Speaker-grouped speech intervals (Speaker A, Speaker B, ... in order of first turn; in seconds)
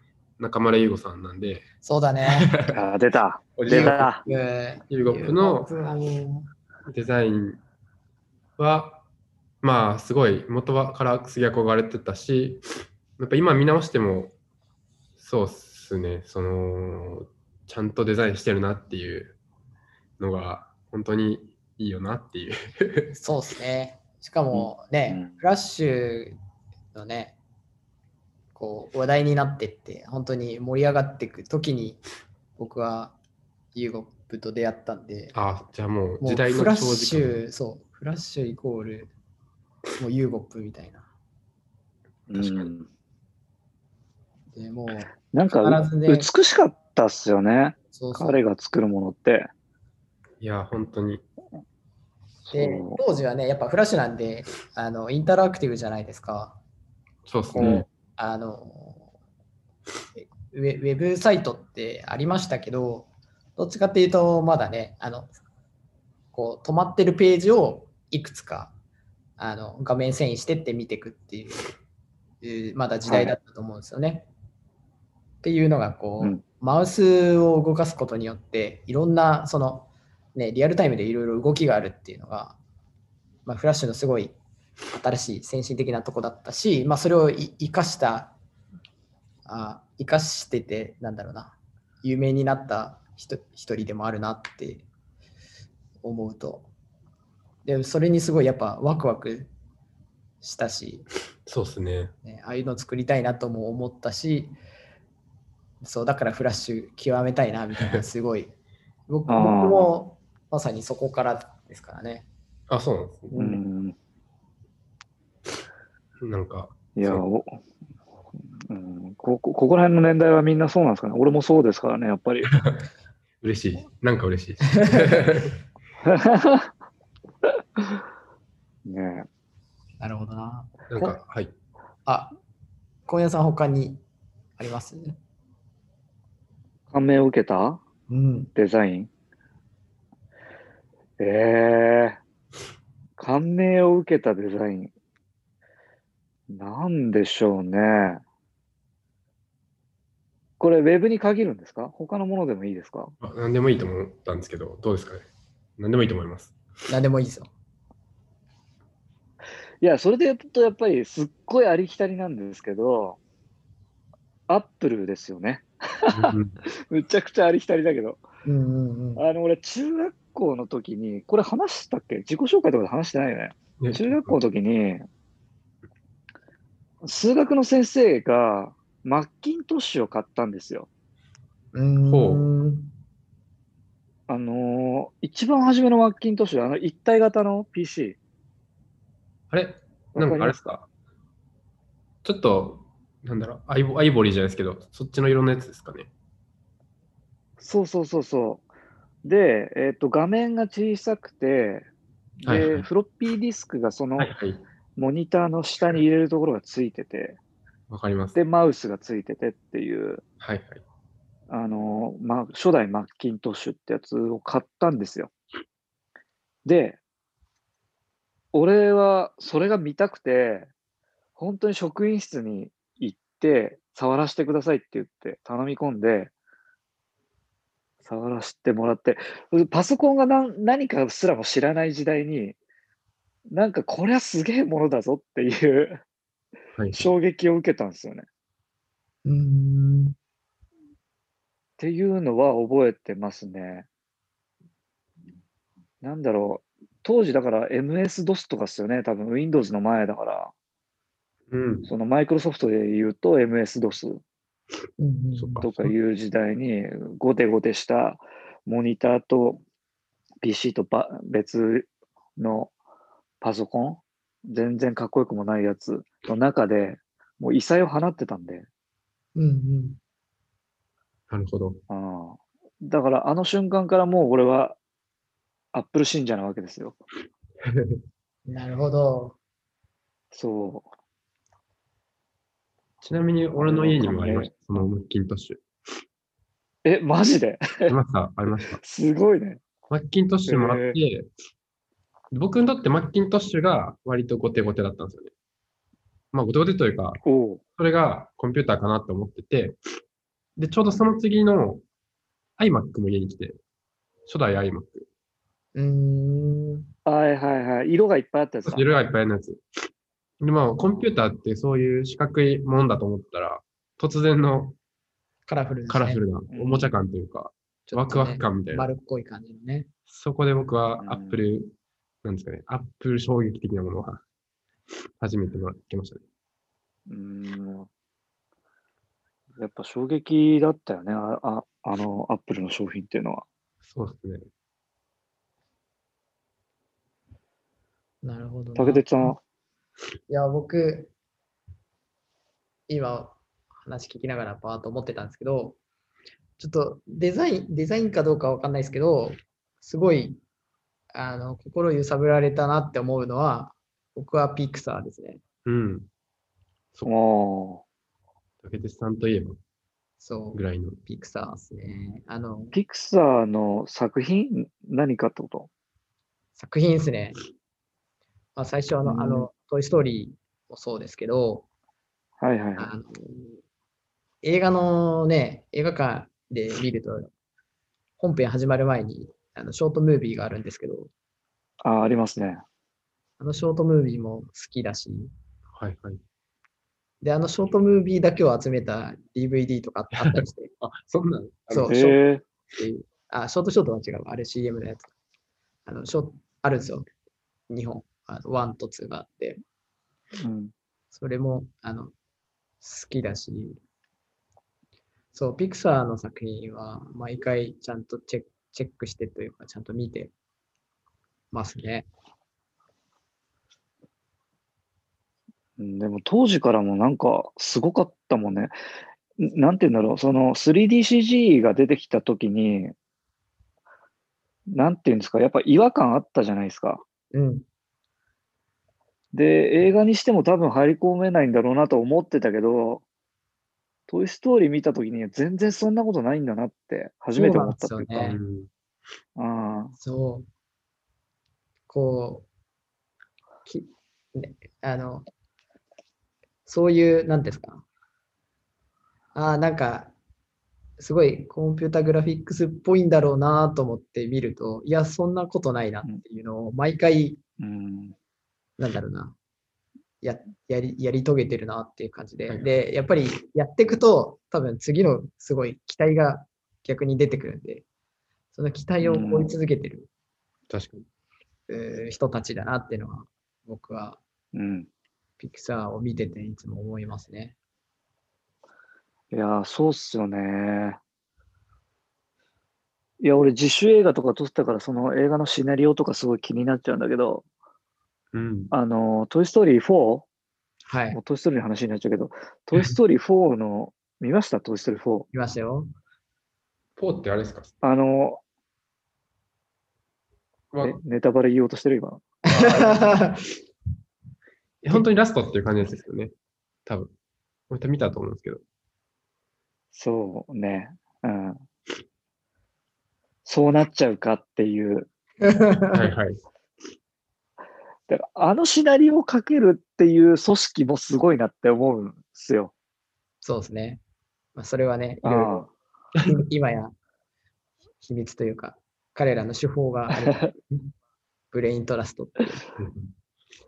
Speaker A: 0.4-1.6, 2.3-2.8, 3.5-4.3, 4.9-5.7, 6.9-7.6, 8.6-9.0, 9.6-12.6, 13.2-14.3, 15.2-19.4, 20.2-23.1, 35.3-37.4, 42.3-42.7, 50.4-51.2, 57.2-57.9, 101.5-102.1, 112.7-113.6, 116.2-117.2, 122.5-122.8, 123.4-125.6, 130.9-131.5, 153.2-155.2, 155.8-156.5, 166.1-166.6, 173.8-174.4, 182.0-182.5, 189.5-190.9, 192.2-196.1, 202.4-202.9, 204.2-204.6, 207.9-208.4, 210.4-210.8, 236.8-237.1, 251.5-251.9, 255.3-255.9, 271.3-271.8, 277.7-278.0, 283.0-285.6, 287.9-288.8, 289.9-291.3, 292.3-295.3, 296.3-297.2, 297.8-299.8, 300.6-301.8, 302.6-303.6, 304.2-305.1, 308.6-309.6, 310.4-314.8, 315.9-318.9, 320.1-324.2, 325.2-326.2, 333.8-334.4, 355.6-356.1, 358.6-359.6, 360.5-361.0, 385.7-386.2, 390.1-391.9, 438.1-438.7, 470.7-471.0, 488.3-488.7, 497.0-497.7, 500.7-501.0, 502.5-503.2, 504.8-506.3, 506.9-507.1, 507.7-508.6, 515.9-516.4, 532.8-533.0
Speaker B: 1.8-2.5, 3.7-6.5, 23.1-26.4, 26.9-27.4, 28.5-32.0, 32.5-33.1, 33.7-35.3, 36.2-39.1, 40.0-41.1, 44.5-46.3, 47.9-48.4, 52.5-56.6, 57.5-59.1, 60.1-65.3, 66.3-68.7, 69.4-71.7, 72.4-74.3, 75.4-82.6, 83.5-84.3, 84.9-88.3, 89.4-94.8, 96.0-96.7, 97.6-99.5, 100.4-101.1, 102.2-104.6, 105.8-108.5, 109.1-112.3, 130.0-130.7, 132.0-132.3, 133.1-134.0, 134.6-135.2, 138.1-138.5, 156.9-157.5, 168.4-169.2, 181.7-182.9, 239.2-240.1, 255.0-255.6, 269.3-270.0, 278.5-279.4, 305.7-306.9, 315.4-316.2, 317.9-319.9, 338.2-339.3, 340.3-341.1, 342.9-345.8, 346.6-350.4, 351.1-355.4, 360.2-362.8, 366.6-367.4, 368.5-371.7, 372.8-373.6, 374.4-377.3, 378.2-381.1, 383.4-385.3, 387.2-390.7, 391.7-392.2, 392.8-395.1, 395.9-397.1, 397.7-399.6, 401.1-402.1, 402.8-403.8, 405.3-410.3, 411.5-412.1, 427.3-427.6, 437.3-438.4, 440.0-440.5, 441.9-442.4, 443.6-445.3, 446.6-447.8, 449.3-450.1, 451.0-457.4, 458.8-459.4, 460.2-467.8, 468.5-470.1, 471.7-474.2, 475.4-477.5, 490.9-491.2, 495.3-495.9, 502.5-503.5, 515.4-516.1, 523.4-524.0, 524.5-525.6, 526.2-526.9, 528.0-530.8, 531.5-532.6
Speaker C: 2.7-4.2, 24.5-25.4, 42.3-42.9, 45.3-49.5, 52.5-53.0, 57.6-57.9, 73.0-73.3, 109.3-109.9, 113.3-114.0, 117.0-117.6, 118.5-122.5, 126.0-126.7, 128.8-129.3, 136.9-137.8, 138.6-139.1, 141.2-142.2, 143.2-144.9, 146.5-148.2, 150.6-153.1, 159.8-163.2, 164.5-168.2, 169.2-175.1, 177.0-180.9, 184.3-188.2, 190.1-190.6, 197.6-198.7, 199.2-201.9, 202.4-204.3, 205.0-207.4, 208.3-210.2, 211.5-215.3, 216.7-217.0, 218.5-220.7, 221.4-226.3, 228.0-232.6, 233.5-236.0, 236.9-238.2, 241.8-243.9, 246.0-250.5, 251.8-254.2, 255.6-259.6, 260.4-262.7, 263.4-268.7, 271.9-274.8, 275.7-277.0, 280.3-280.9, 283.5-284.6, 286.8-288.0, 288.8-289.6, 290.5-291.0, 297.2-297.6, 307.1-308.9, 316.5-317.0, 321.0-321.4, 327.1-327.9, 329.6-333.4, 338.8-339.4, 357.0-357.8, 362.7-365.7, 369.0-369.5, 372.4-372.9, 381.8-382.6, 391.9-392.4, 400.4-400.7, 415.8-418.7, 419.4-422.9, 424.7-427.0, 429.3-433.0, 434.1-438.1, 439.4-439.9, 457.6-458.1, 469.0-469.5, 474.5-474.9, 479.3-481.0, 483.2-487.4, 488.7-490.2, 491.1-495.3, 497.8-498.4, 500.8-502.2, 509.9-511.6, 513.4-515.1, 518.1-522.7, 525.2-525.7